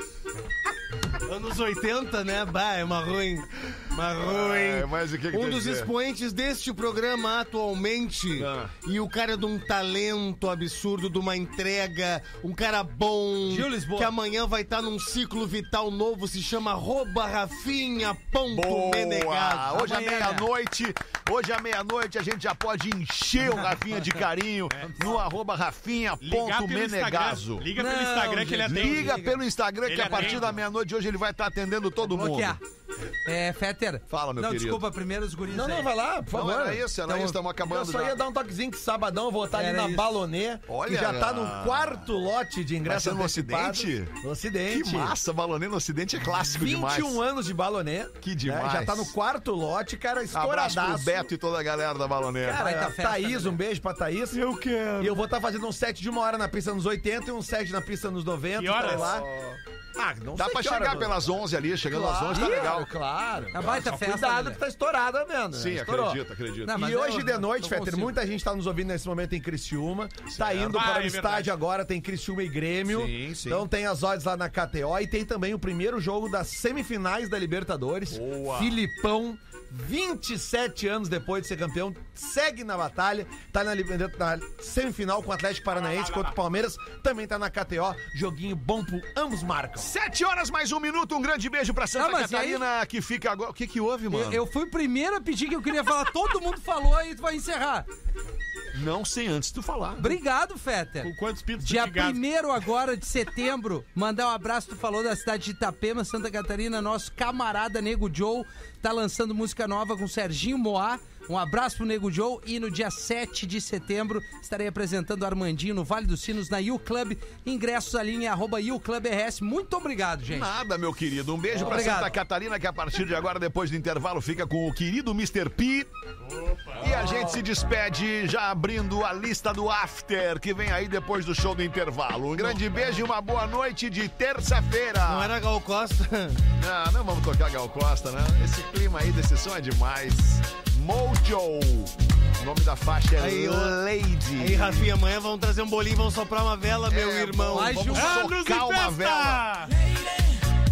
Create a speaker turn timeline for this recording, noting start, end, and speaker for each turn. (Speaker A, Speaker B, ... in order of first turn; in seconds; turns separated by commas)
Speaker A: 1.2-19.8, Speaker B: 4.2-5.9, Speaker B: 8.4-8.8, Speaker C: 13.5-14.1, Speaker B: 18.5-27.7, Speaker C: 19.7-20.5, Speaker D: 24.7-25.1, Speaker C: 24.8-25.2, Speaker D: 26.2-29.2, Speaker C: 27.8-29.4, Speaker B: 28.7-32.6, Speaker D: 29.9-30.6, Speaker C: 30.1-30.5, Speaker C: 32.0-32.6, Speaker C: 33.2-35.9, Speaker B: 34.1-34.8, Speaker E: 35.5-36.9, Speaker B: 36.3-38.2, Speaker C: 37.1-37.4, Speaker E: 37.6-45.2, Speaker C: 39.5-40.2, Speaker B: 40.7-42.1, Speaker B: 42.8-47.2, Speaker E: 46.5-51.3, Speaker B: 48.2-49.1, Speaker B: 50.3-52.6, Speaker E: 52.4-54.5, Speaker C: 52.5-53.6, Speaker A: 54.3-55.2, Speaker E: 55.0-89.9, Speaker D: 58.5-59.2, Speaker B: 58.8-59.5, Speaker B: 60.4-62.9, Speaker C: 62.3-62.8, Speaker C: 63.5-64.6, Speaker B: 63.5-63.9, Speaker B: 65.5-66.8, Speaker C: 66.7-68.2, Speaker D: 70.4-71.5, Speaker B: 72.8-73.7, Speaker B: 78.1-78.8, Speaker D: 85.8-86.3, Speaker B: 89.8-94.4, Speaker C: 92.0-92.6, Speaker C: 94.1-97.9, Speaker B: 98.7-100.2, Speaker C: 100.0-120.5, Speaker D: 101.0-102.2, Speaker B: 120.3-125.9, Speaker C: 121.6-122.1, Speaker D: 126.3-126.8, Speaker B: 126.8-135.4, Speaker E: 126.8-127.4, Speaker A: 135.0-136.4, Speaker B: 136.6-144.9, Speaker A: 143.2-143.8, Speaker A: 144.4-147.9, Speaker B: 146.8-149.5, Speaker C: 147.5-148.2, Speaker D: 147.9-149.8, Speaker A: 149.9-150.3